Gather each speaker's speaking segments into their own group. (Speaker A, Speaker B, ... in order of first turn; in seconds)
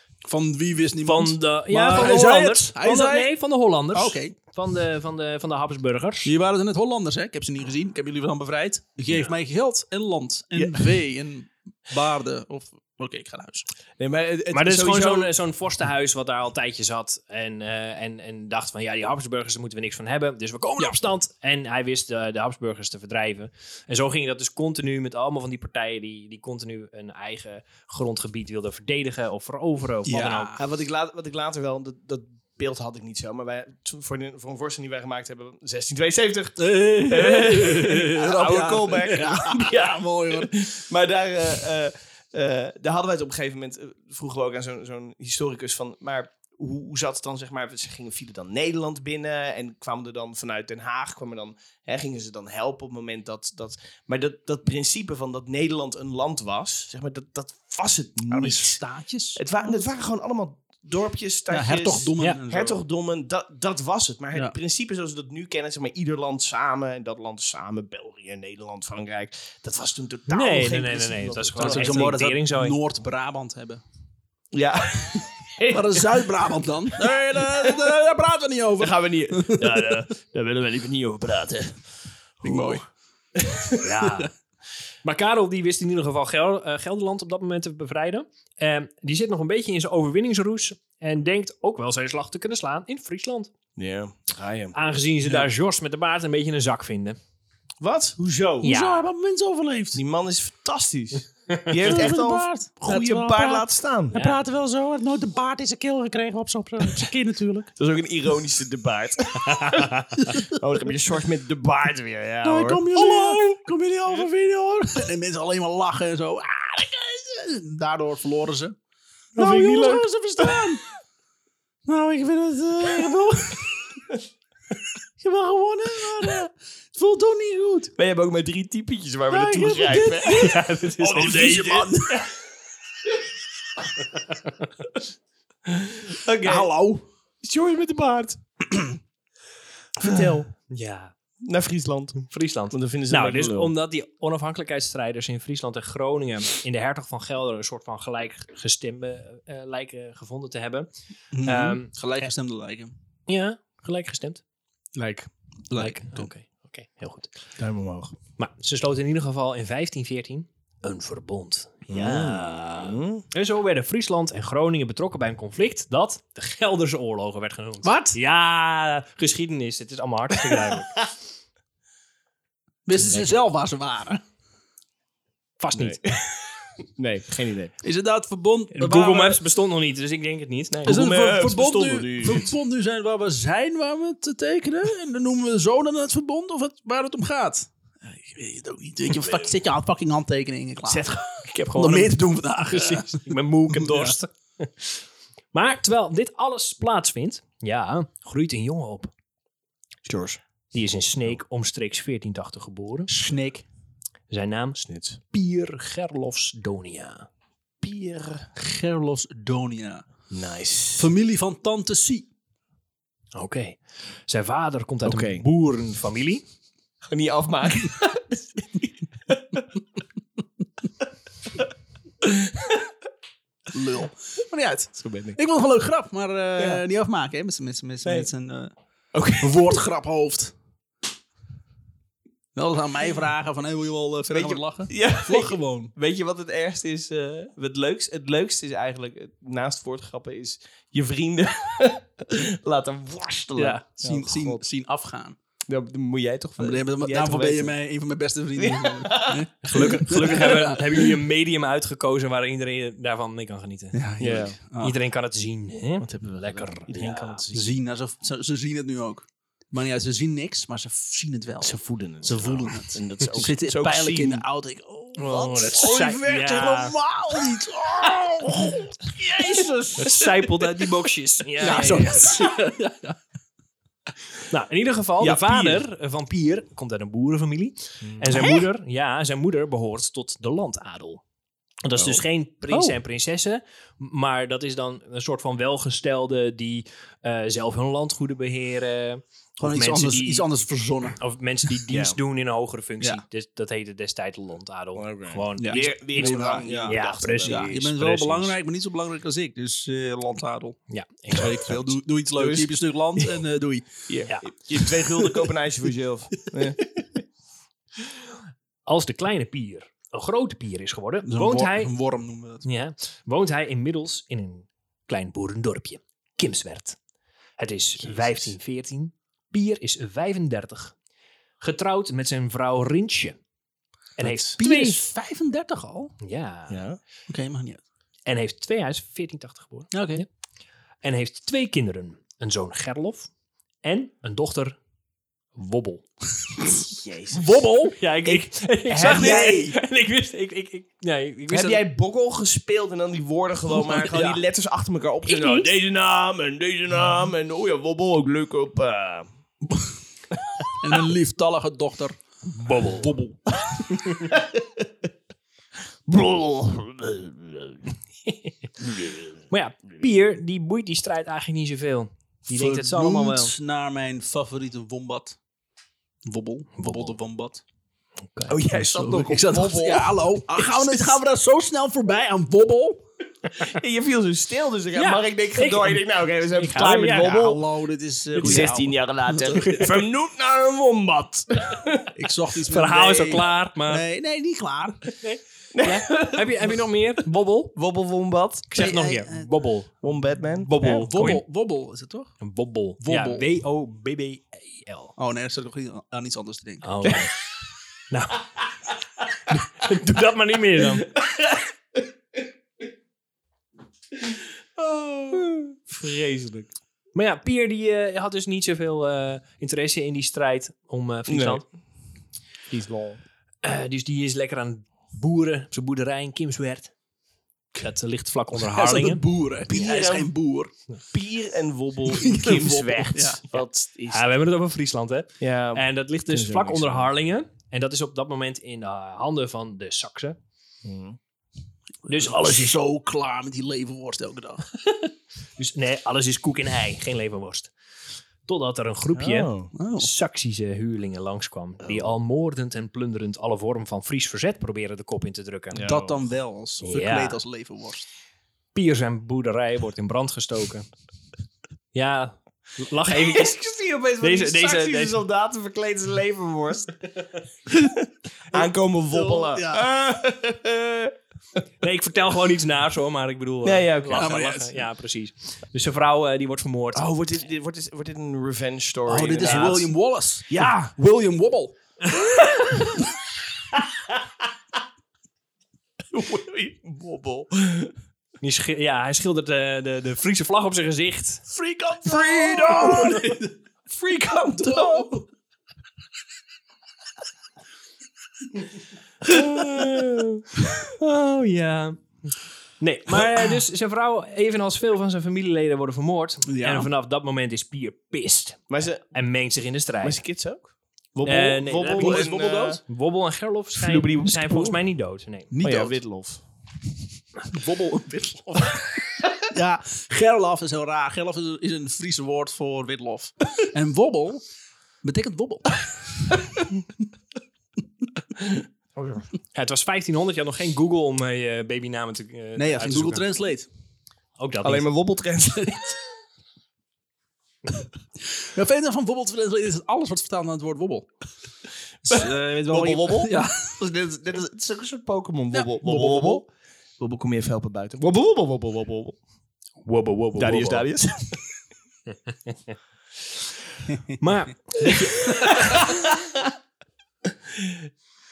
Speaker A: 0.2-3.3, 3.9-4.3, 6.2-13.7, 30.1-30.6, 36.6-40.5, 58.3-59.4, 61.5-62.8, 71.6-73.8, 75.7-79.8, 82.4-82.8, 98.6-100.0, 101.8-107.7, 112.4-118.8, 119.4-120.8, 121.9-124.0, 125.2-127.9, 129.3-132.2, 136.4-137.1, 151.3-152.9, 155.7-156.3, 167.8-168.2, 172.9-174.2, 177.8-179.4, 180.9-187.7, 188.3-191.1, 191.8-194.1, 203.1-203.6, 208.6-210.1, 211.0-212.3, 223.7-228.7, 229.4-230.5, 232.5-235.9, 243.6-245.4, 246.6-251.1, 253.9-255.0, 257.5-268.9, 271.6-273.2, 289.6-291.2, 295.6-300.8, 301.3-304.1, 311.2-312.6, 324.6-326.1, 327.3-327.8, 329.9-330.2, 337.3-339.8, 343.7-344.4, 350.8-352.2, 352.7-353.4, 362.5-365.4, 366.2-367.6, 368.9-373.0, 377.1-379.9, 382.1-385.0, 388.8-389.5, 390.8-392.4, 393.0-393.5, 395.2-396.9, 418.6-420.7, 422.1-423.4, 432.1-434.7, 439.8-440.1, 445.8-448.1, 459.1-459.9, 464.1-464.8, 469.1-471.8, 482.0-483.5, 484.6-485.2, 496.5-496.9, 502.0-502.8, 505.5-506.0, 507.5-508.8, 509.5-514.4, 515.0-515.8, 522.5-523.7, 528.5-531.1, 532.0-533.8, 535.5-536.4, 540.0-540.4, 543.9-544.2
Speaker B: 1.0-6.3, 14.5-30.6, 70.3-72.8, 83.8-84.3, 85.0-93.5, 94.7-97.2, 98.6-99.0, 109.5-110.3, 130.3-131.4, 140.7-141.1, 142.3-150.9, 151.4-151.9, 153.3-154.4, 155.8-157.3, 158.4-171.1, 175.6-176.1, 178.8-181.0, 192.7-199.1, 200.7-203.1, 204.3-207.3, 213.3-216.4, 249.7-254.0, 254.8-257.5, 265.2-267.0, 270.0-272.5, 274.4-281.2, 281.8-290.5, 291.2-298.5, 300.9-301.9, 308.9-311.9, 312.6-317.0, 317.6-320.9, 321.6-323.4, 324.2-325.0, 326.2-326.8, 328.2-330.2, 331.0-333.3, 333.8-334.8, 335.5-336.1, 337.9-341.8, 345.2-345.7, 352.5-353.1, 358.3-358.5, 359.5-363.5, 366.8-367.1, 368.3-369.2, 374.9-377.4, 378.4-378.8, 382.7-384.0, 385.2-387.8, 388.7-390.1, 390.7-391.4, 392.4-395.1, 396.8-397.3, 398.1-398.5, 399.5-401.1, 407.1-411.7, 413.6-416.9, 417.8-419.2, 423.5-430.4, 432.1-432.7, 434.9-437.7, 438.5-445.9, 446.8-447.4, 448.8-450.9, 451.9-453.6, 454.2-455.2, 461.8-467.1, 469.4-469.8, 472.3-472.8, 478.4-481.5, 482.9-483.2, 490.8-500.2, 501.2-505.5, 519.5-523.2, 524.4-524.9, 539.9-540.8, 544.2-546.0
Speaker C: 10.6-10.9, 14.0-15.3, 30.6-58.8, 59.4-72.2, 74.5-76.2, 77.4-77.8, 78.8-81.8, 82.4-83.9, 93.8-94.8, 97.8-98.7, 100.0-104.2, 107.8-109.9, 110.5-113.5, 119.4-120.8, 122.8-123.1, 128.0-132.3, 135.7-136.7, 137.4-138.4, 140.0-140.5, 141.4-143.7, 157.6-158.2, 161.9-163.2, 170.4-171.0, 175.7-176.2, 176.8-177.7, 180.7-182.5, 189.1-189.5, 190.8-192.2, 200.1-200.4, 204.8-205.2, 207.8-208.5, 210.3-211.1, 215.0-215.5, 217.0-219.7, 222.2-222.9, 225.0-225.4, 226.6-226.8, 228.0-228.3, 229.1-229.8, 234.3-244.6, 245.7-247.7, 248.6-250.8, 254.2-254.6, 256.0-257.7, 261.6-264.5, 265.2-266.0, 269.1-270.9, 271.6-272.2, 275.2-275.8, 278.0-278.6, 282.0-282.9, 291.9-292.2, 295.0-297.7, 302.4-303.4, 304.1-307.0, 324.2-324.6, 326.7-327.0, 336.7-337.4, 339.0-339.5, 341.5-349.3, 353.7-354.9, 356.1-357.9, 358.8-359.4, 368.5-371.2, 373.6-377.6, 378.4-382.0, 385.7-386.9, 387.8-389.0, 390.0-391.1, 397.0-397.3, 400.9-401.6, 404.8-406.8, 411.3-411.6, 412.7-413.2, 419.7-420.3, 421.1-424.2, 425.4-427.1, 430.8-431.2, 439.1-439.7, 445.7-446.1, 453.1-457.0, 457.7-461.1, 463.6-464.7, 466.9-469.9, 470.5-470.9, 476.1-477.9, 481.5-483.2, 483.9-485.2, 489.2-490.4, 498.7-499.1, 500.0-502.8, 503.8-504.8, 505.6-506.4, 518.4-519.2, 524.6-526.0, 532.1-539.2, 540.4-541.4, 544.9-546.3